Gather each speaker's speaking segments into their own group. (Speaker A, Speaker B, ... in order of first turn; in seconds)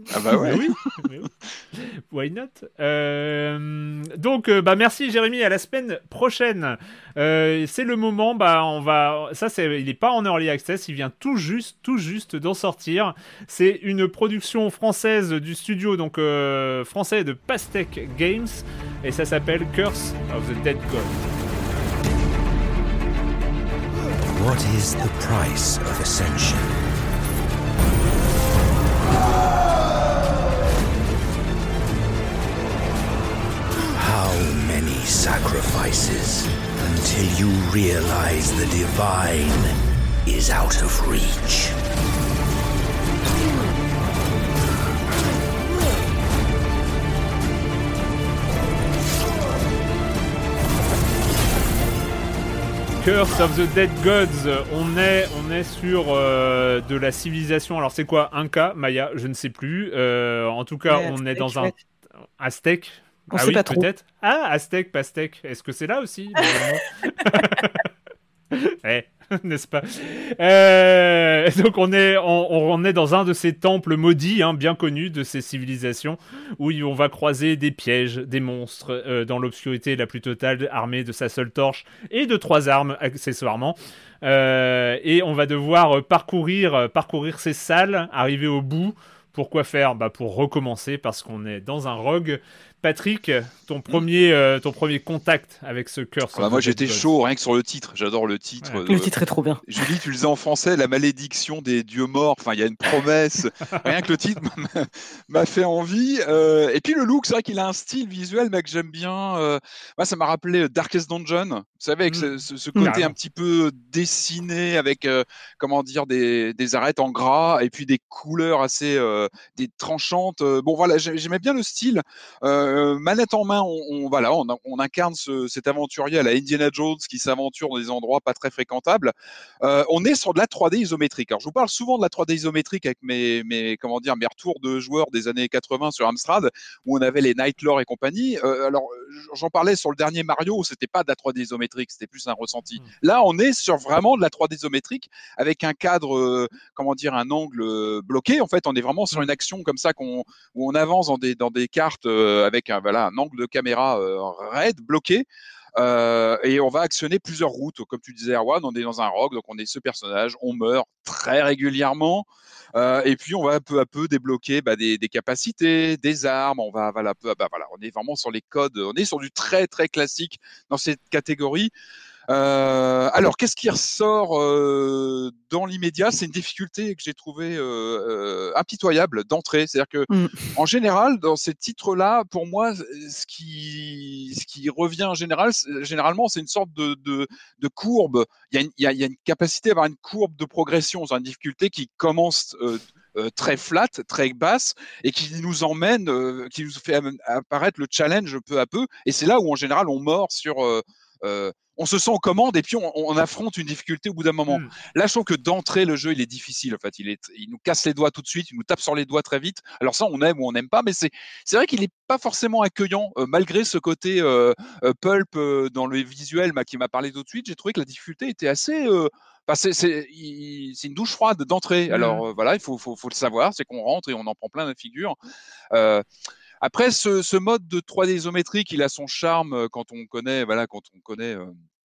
Speaker A: 0.1-0.9, 96.3-99.1, 99.7-155.2, 155.8-171.7, 172.3-225.2, 225.7-226.0, 226.6-231.5
Speaker B: 0.4-21.1, 53.0-61.7, 62.4-67.8, 68.5-97.0, 112.1-113.1, 221.9-222.2
Speaker C: 24.3-26.7, 33.9-41.7
Speaker D: 60.9-61.7, 63.3-63.9, 98.9-99.6, 180.1-180.3